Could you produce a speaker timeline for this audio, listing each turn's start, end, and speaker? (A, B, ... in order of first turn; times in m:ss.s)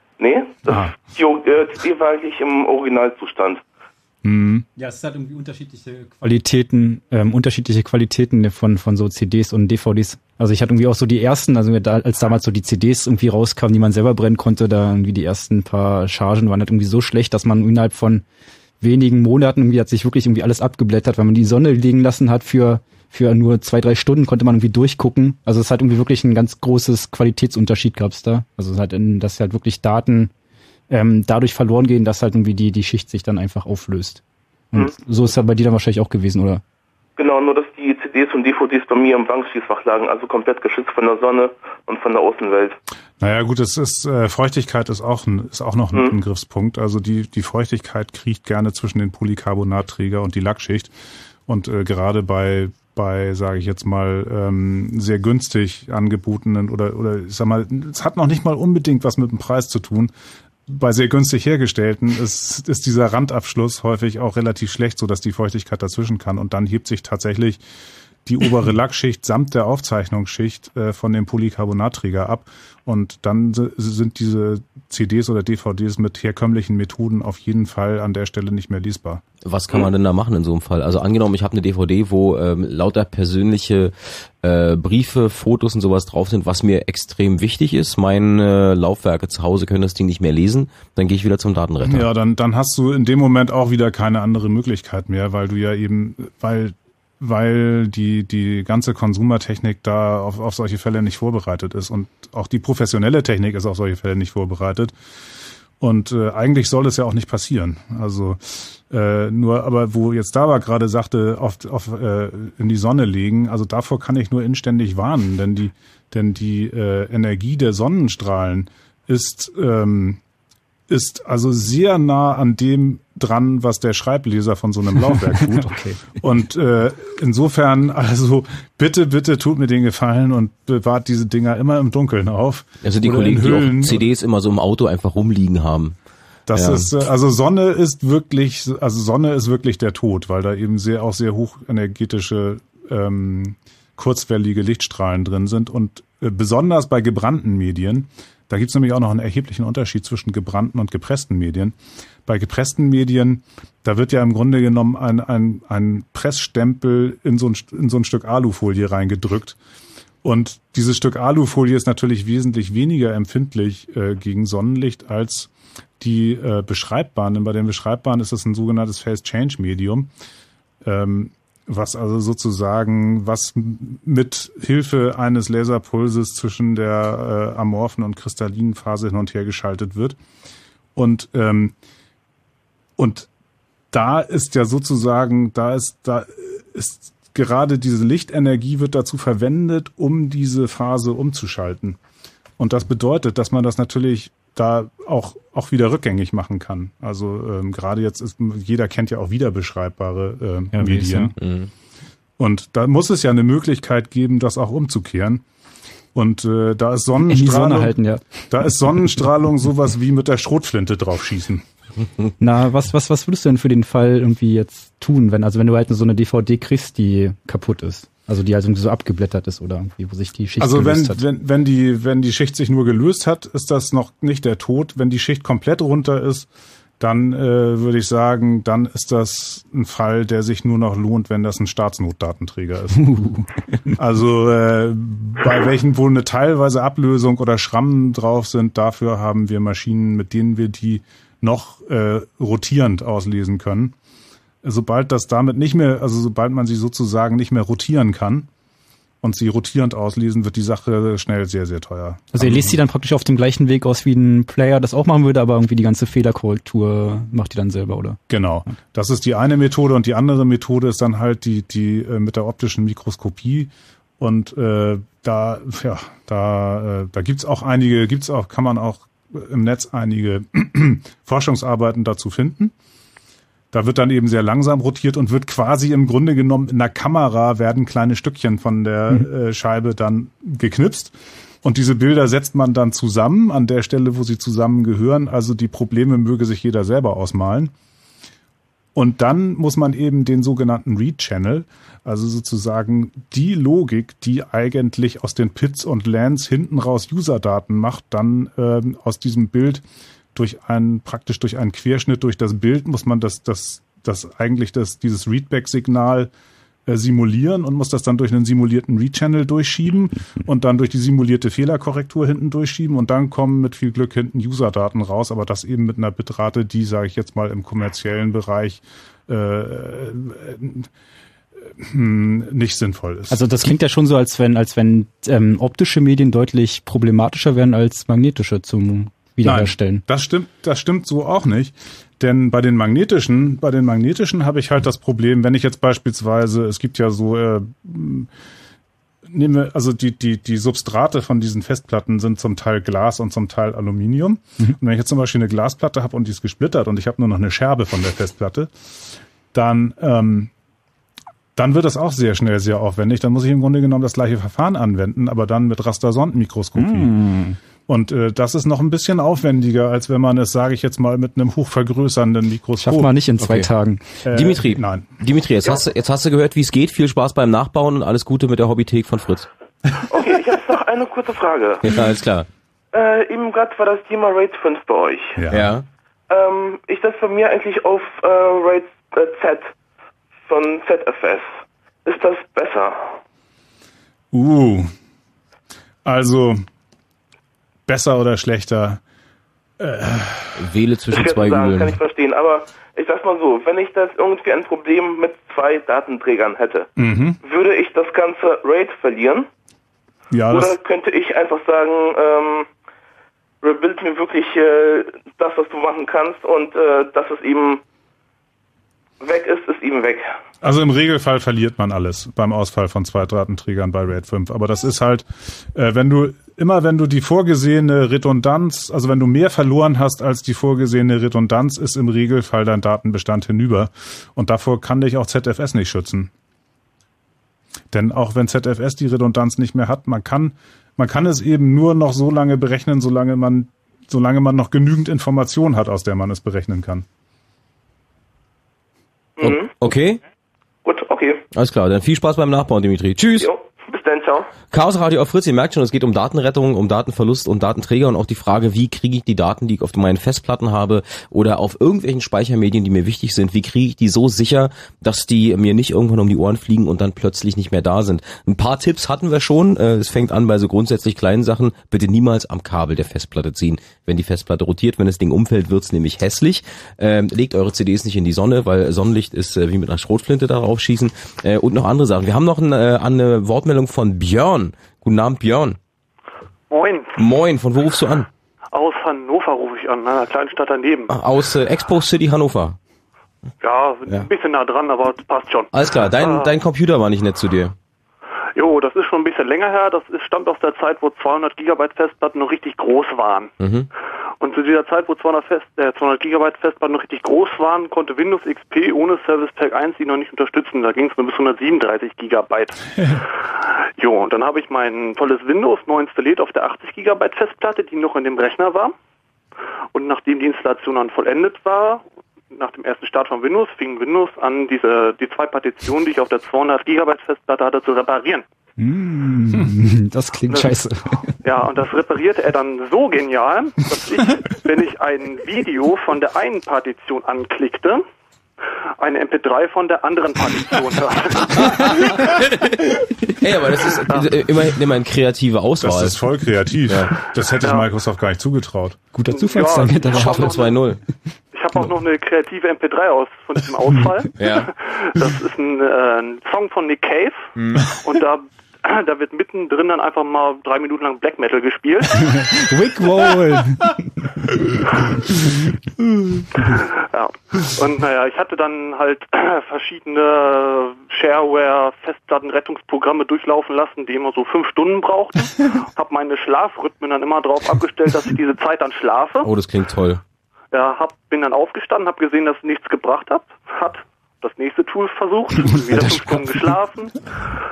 0:00.2-0:03.6 A
0:00.7-0:00.9 B
0:04.2-0:04.6 B
0:04.8-0:18.2 C
0:18.8-0:30.3 C
0:30.9-0:34.2 C
0:34.7-0:36.6 C
0:37.2-0:42.8 A
0:43.2-0:50.9 B
0:51.5-1:00.1 B
1:00.7-1:07.6 B
1:08.2-1:19.2 B
1:19.4-1:32.1 D
1:31.8-1:44.9 B
1:45.8-2:00.2 B
2:00.9-2:14.0 B
2:05.4-2:06.0 C
2:12.8-2:16.0 D
2:16.5-2:31.7 B
2:16.5-2:16.9 D
2:32.2-2:39.6 B
2:40.2-2:50.1 B
2:50.8-3:00.2 B
3:01.0-3:01.7 B
3:03.0-3:03.3 B
3:03.9-3:12.0 B
3:12.6-3:21.4 B
3:20.7-3:21.3 C
3:21.4-3:21.7 D
3:22.4-3:25.4 B
3:26.1-3:31.6 B
3:27.2-3:28.2 C
3:32.4-3:41.2 C
3:40.6-4:03.9 B
4:04.6-4:08.5 B
4:09.2-4:12.8 B
4:12.3-4:18.2 C
4:18.3-4:32.7 B
4:33.7-4:47.7 B
4:48.9-4:59.8 B
5:00.3-5:06.3 B
5:06.9-5:20.9 B
5:21.7-5:23.4 B
5:23.3-5:30.0 C
5:29.4-5:38.3 B
5:39.3-5:50.5 B
5:51.5-5:57.1 B
5:56.8-5:57.6 C
5:57.9-6:03.3 B
6:02.8-6:04.0 C
6:03.4-6:03.7 D
6:04.2-6:05.0 B
6:04.3-6:09.5 D
6:10.1-6:11.8 A
6:11.8-6:12.5 D
6:12.9-6:15.4 A
6:15.4-6:15.7 B
6:15.5-6:15.8 D
6:16.3-6:19.7 A
6:20.4-6:23.2 A
6:24.3-6:24.9 B
6:26.0-6:26.6 B
6:27.9-6:29.0 B
6:29.8-6:30.6 B
6:30.6-6:32.0 D
6:31.1-6:36.9 A
6:37.0-6:37.4 B
6:37.4-6:39.5 A
6:40.3-6:40.8 B
6:40.5-6:42.7 A
6:43.6-6:47.8 A
6:49.2-6:50.3 A
6:50.6-7:06.3 B
7:07.9-7:17.0 B
7:19.4-7:19.9 A
7:19.4-7:20.2 D
7:20.8-7:21.4 A
7:21.5-7:23.5 D
7:23.4-7:24.5 A
7:24.7-7:55.8 D
7:56.7-7:57.2 E
7:57.2-7:58.3 D
7:58.7-8:01.1 E
8:01.1-8:02.8 D
8:03.6-8:06.5 E
8:05.7-8:07.7 D
8:08.6-8:13.5 E
8:13.6-8:13.9 D
8:14.4-8:22.8 E
8:24.0-8:28.9 E
8:29.9-8:38.4 E
8:38.8-8:41.3 C
8:40.5-8:40.8 E
8:41.4-8:48.0 E
8:49.0-8:52.3 E
8:51.4-8:56.2 D
8:54.0-8:54.3 E
8:55.8-8:59.0 B
8:56.9-8:57.1 D
8:57.6-8:57.9 E
8:59.1-9:00.7 C
8:59.3-9:00.8 E
9:00.0-9:01.0 D
9:01.5-9:07.5 E
9:04.4-9:04.7 D
9:07.6-9:07.8 D
9:08.0-9:12.5 E
9:12.7-9:14.0 C
9:15.4-9:16.4 B
9:16.8-9:29.5 E
9:29.4-9:30.2 D
9:30.7-9:37.3 E
9:35.9-9:36.6 C